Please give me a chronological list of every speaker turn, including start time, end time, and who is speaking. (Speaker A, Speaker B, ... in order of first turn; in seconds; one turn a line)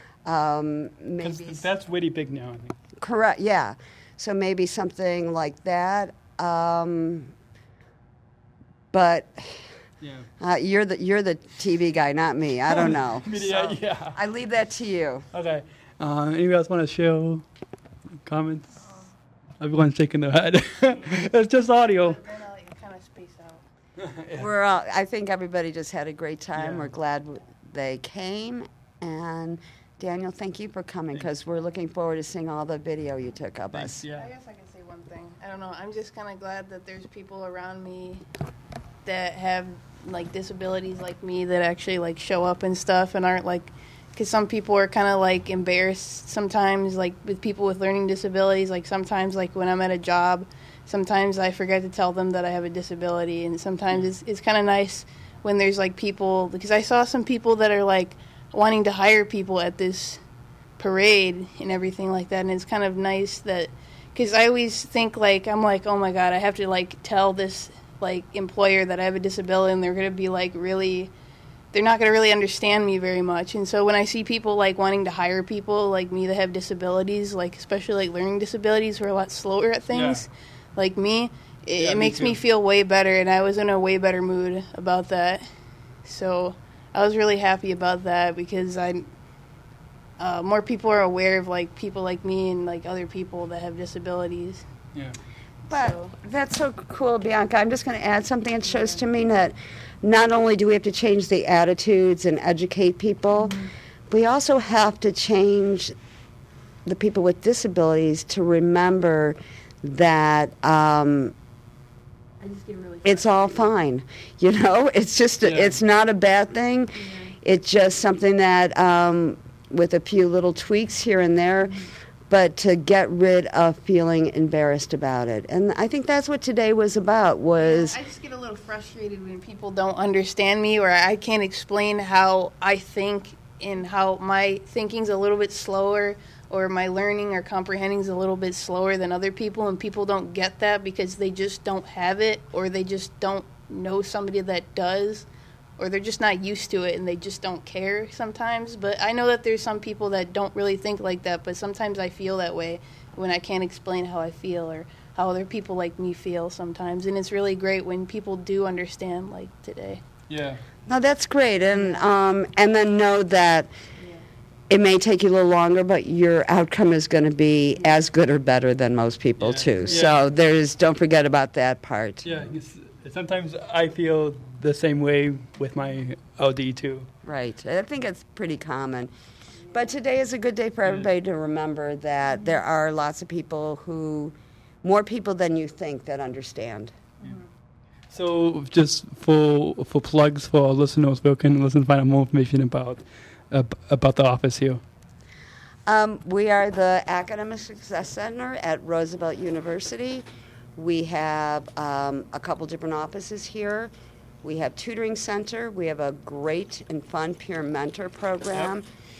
Speaker A: 0.2-1.6
Speaker B: 1.2-2.8
Speaker A: 3.0-7.3
Speaker A: 8.9-9.7
Speaker B: 10.0-10.3
Speaker A: 10.4-15.2
Speaker B: 12.7-14.2
Speaker B: 15.3-17.4
Speaker B: 18.2-18.7
Speaker B: 19.6-22.2
Speaker C: 21.9-23.6
Speaker B: 24.0-24.5
Speaker A: 24.4-34.0
Speaker B: 26.6-26.9
Speaker B: 33.7-34.3
Speaker C: 34.1-38.2
Speaker C: 39.0-60.2
Speaker C: 60.8-71.1
Speaker C: 71.7-85.5
Speaker B: 79.9-80.2
Speaker B: 81.8-82.4
Speaker C: 86.0-89.0
Speaker C: 90.2-94.7
Speaker A: 95.7-105.9
Speaker C: 95.7-96.1
Speaker A: 106.8-111.3
Speaker C: 112.4-113.3
Speaker A: 113.0-128.0
Speaker B: 115.4-115.8
Speaker C: 117.0-117.3
Speaker C: 127.6-145.2
Speaker C: 145.8-160.0
Speaker B: 160.3-160.6
Speaker A: 160.9-163.7
Speaker A: 164.7-172.2
Speaker B: 169.4-170.2
Speaker B: 172.2-177.1
Speaker A: 177.2-179.1
Speaker A: 179.7-186.9
Speaker B: 188.1-194.8
Speaker A: 195.9-200.2
Speaker A: 200.8-203.9
Speaker A: 204.4-208.8